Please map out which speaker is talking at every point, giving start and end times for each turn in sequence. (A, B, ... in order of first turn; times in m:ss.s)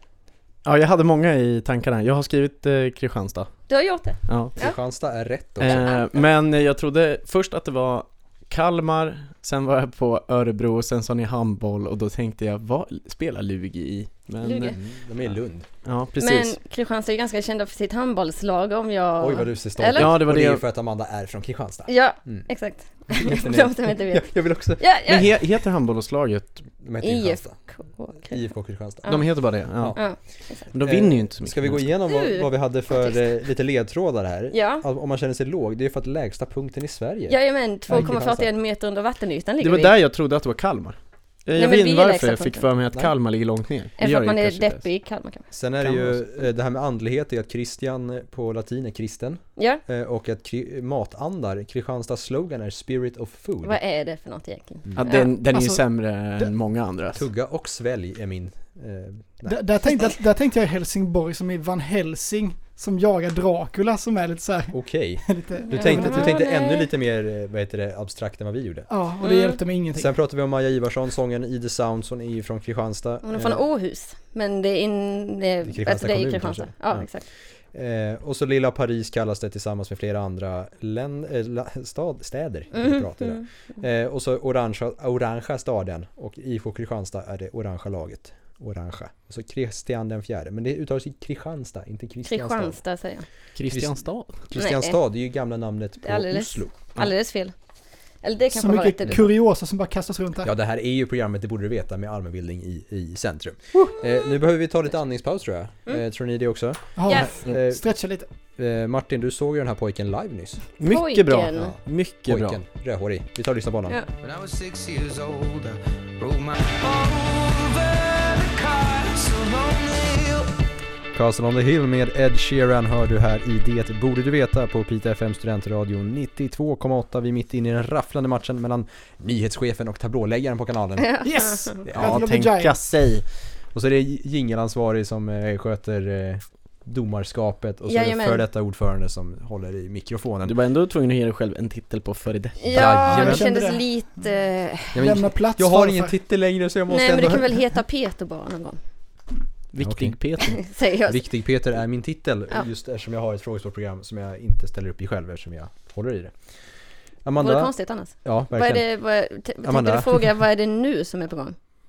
0:00.6-0:03.5 A
0:03.7-0:04.8 B
0:04.3-0:04.6 A
0:04.6-0:06.0 C
0:05.6-0:14.8 A
0:05.6-0:06.1 B
0:14.4-0:14.8 B
0:14.7-0:15.7 C
0:15.8-0:16.6 A
0:16.2-0:20.1 B
0:19.2-0:22.5 C
0:20.0-0:20.6 A
0:21.9-0:25.3 B
0:23.1-0:25.1 C
0:25.1-0:26.7 A
0:26.8-0:27.6 C
0:27.0-0:28.4 B
0:28.2-0:38.5 C
0:29.0-0:30.7 B
0:29.1-0:30.0 A
0:30.7-0:31.9 A
0:32.1-0:33.2 B
0:34.5-0:34.8 B
0:37.3-0:39.9 B
0:39.6-0:44.8 A
0:41.6-0:42.7 B
0:44.0-0:45.5 B
0:45.5-0:53.8 C
0:49.6-0:49.8 B
0:53.6-0:55.3 B
0:55.0-0:57.2 A
0:55.5-0:55.8 D
0:57.1-0:59.6 C
0:59.5-1:06.4 D
1:04.7-1:08.9 C
1:05.6-1:06.9 B
1:08.9-1:10.1 D
1:09.2-1:09.6 B
1:10.0-1:13.6 C
1:13.2-1:17.2 B
1:15.6-1:17.1 C
1:17.7-1:32.8 C
1:22.7-1:23.5 B
1:32.2-1:33.3 B
1:33.6-1:34.3 A
1:33.7-1:37.0 C
1:34.6-1:35.0 B
1:36.0-1:37.5 B
1:38.2-1:39.3 B
1:38.5-1:40.5 D
1:40.4-1:47.8 C
1:47.0-1:48.3 D
1:48.6-1:50.6 C
1:50.8-1:52.6 A
1:50.9-1:51.7 B
1:52.3-1:54.0 C
1:54.2-2:00.5 E
2:01.1-2:12.2 C
2:11.0-2:11.8 B
2:11.2-2:12.8 D
2:11.9-2:13.2 A
2:13.7-2:20.6 C
2:17.9-2:18.4 B
2:20.5-2:22.6 A
2:22.6-2:25.0 B
2:22.7-2:23.7 C
2:22.8-2:23.8 D
2:24.9-2:27.6 C
2:25.0-2:26.1 D
2:26.9-2:28.8 B
2:29.7-2:30.6 A
2:29.8-2:30.2 C
2:30.5-2:31.2 B
2:31.1-2:36.4 C
2:37.2-2:38.9 C
2:37.4-2:41.6 B
2:39.6-2:40.3 C